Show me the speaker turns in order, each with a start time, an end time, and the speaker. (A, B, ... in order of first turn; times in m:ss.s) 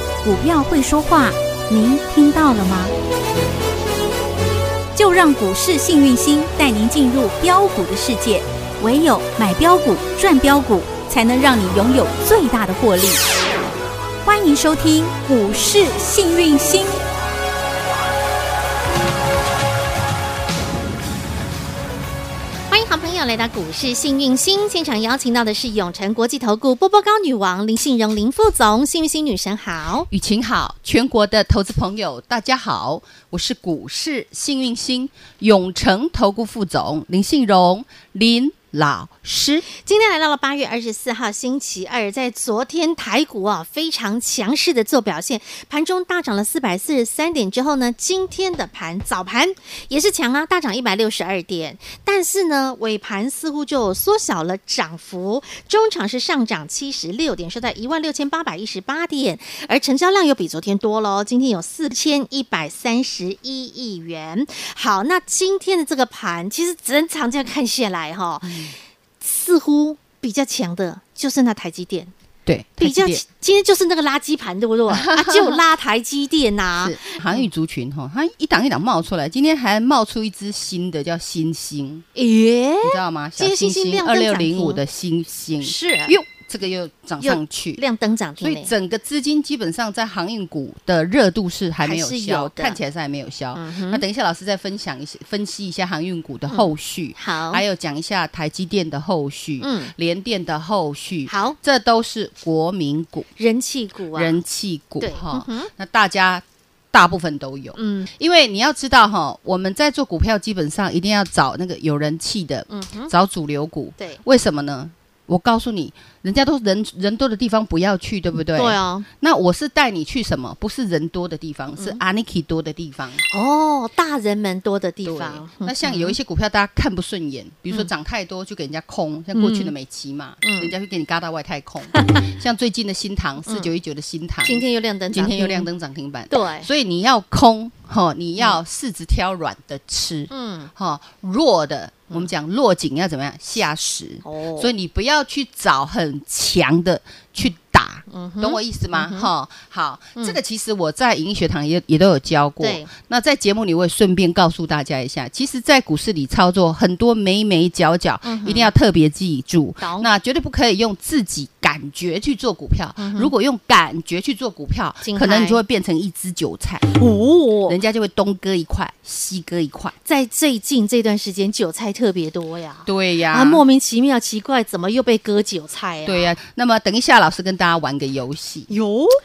0:00.2-0:02.9 A
0:05.0-0:13.2 A
0:14.2-0:17.0 A
0:22.7-0:30.1 B
0:30.1-0:39.6 C
0:39.8-1:08.7 B
1:08.4-1:08.7 C
1:09.2-1:12.1 B
1:12.5-1:13.2 C
1:12.8-1:17.4 B
1:14.9-1:15.6 C
1:16.8-1:22.1 C
1:22.2-1:24.8 B
1:22.8-1:27.8 C
1:25.6-1:26.2 B
1:27.2-1:28.7 B
1:28.4-1:43.3 C
1:31.9-1:32.8 B
1:33.6-1:34.0 B
1:36.5-1:37.6 B
1:39.6-1:39.9 B
1:41.3-1:41.6 B
1:43.4-1:44.4 B
1:44.1-2:03.2 C
1:45.0-1:45.7 B
1:47.8-1:48.1 B
1:52.7-1:53.1 B
1:58.6-1:59.1 B
2:03.3-2:06.2 B
2:05.0-2:46.9 C
2:09.4-2:09.7 B
2:10.4-2:10.7 B
2:12.0-2:12.3 B
2:13.5-2:13.7 B
2:14.4-2:15.7 B
2:16.3-2:16.7 B
2:20.3-2:20.7 B
2:24.3-2:24.7 B
2:28.1-2:29.3 B
2:32.6-2:32.9 B
2:38.2-2:38.7 B
2:39.8-2:40.1 B
2:43.0-2:43.3 B
2:45.0-2:45.6 B
2:47.0-2:47.8 B
2:47.7-2:50.0 C
2:50.1-2:56.4 B
2:52.8-2:53.7 C
2:56.0-2:58.7 C
2:58.7-2:59.1 B